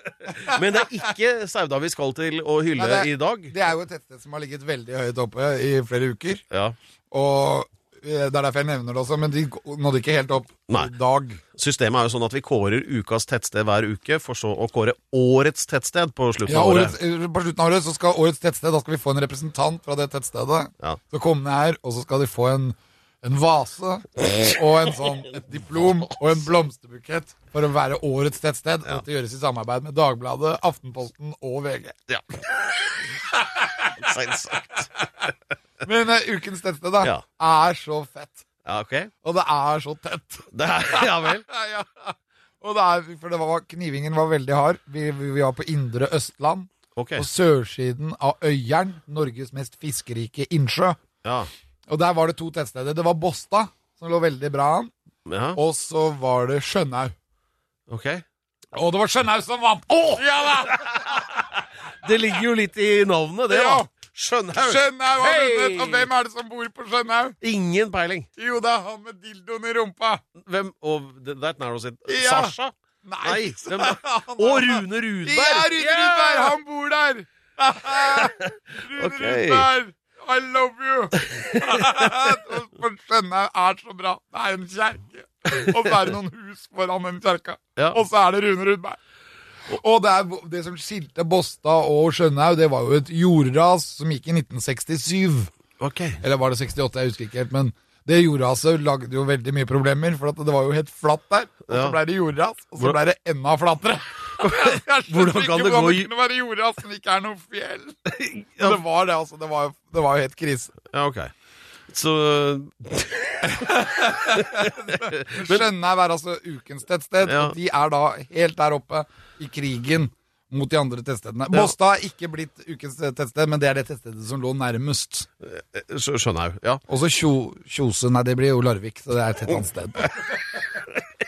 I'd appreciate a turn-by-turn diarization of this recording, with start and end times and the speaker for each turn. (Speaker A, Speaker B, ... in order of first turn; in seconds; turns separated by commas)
Speaker A: 0.2-3.5, Speaker B: 2.8-6.4, Speaker B: 7.1-11.4, Speaker A: 11.5-17.0, Speaker B: 16.5-32.0, Speaker A: 32.1-32.9, Speaker B: 33.4-33.9, Speaker A: 33.8-34.9, Speaker B: 35.8-38.4, Speaker A: 38.6-39.1, Speaker B: 39.2-51.0, Speaker A: 40.5-41.4, Speaker A: 47.0-47.3, Speaker A: 51.2-51.5, Speaker B: 51.9-54.9, Speaker A: 55.3-55.6, Speaker B: 55.5-57.1, Speaker A: 57.9-58.2, Speaker B: 58.7-61.5, Speaker A: 60.7-61.4, Speaker A: 62.0-66.1, Speaker B: 63.5-63.9, Speaker B: 64.5-67.4, Speaker A: 67.4-68.3, Speaker B: 68.4-70.2, Speaker A: 70.3-76.5, Speaker B: 72.1-89.0, Speaker A: 77.9-79.7, Speaker A: 81.2-82.3, Speaker B: 89.7-95.5, Speaker A: 95.8-96.2, Speaker B: 96.2-110.7, Speaker A: 101.7-102.0, Speaker A: 104.4-106.1, Speaker A: 108.2-108.8, Speaker A: 110.9-111.3, Speaker A: 111.9-115.6, Speaker B: 113.4-125.3, Speaker A: 117.2-117.5, Speaker A: 125.4-126.8, Speaker B: 126.9-130.1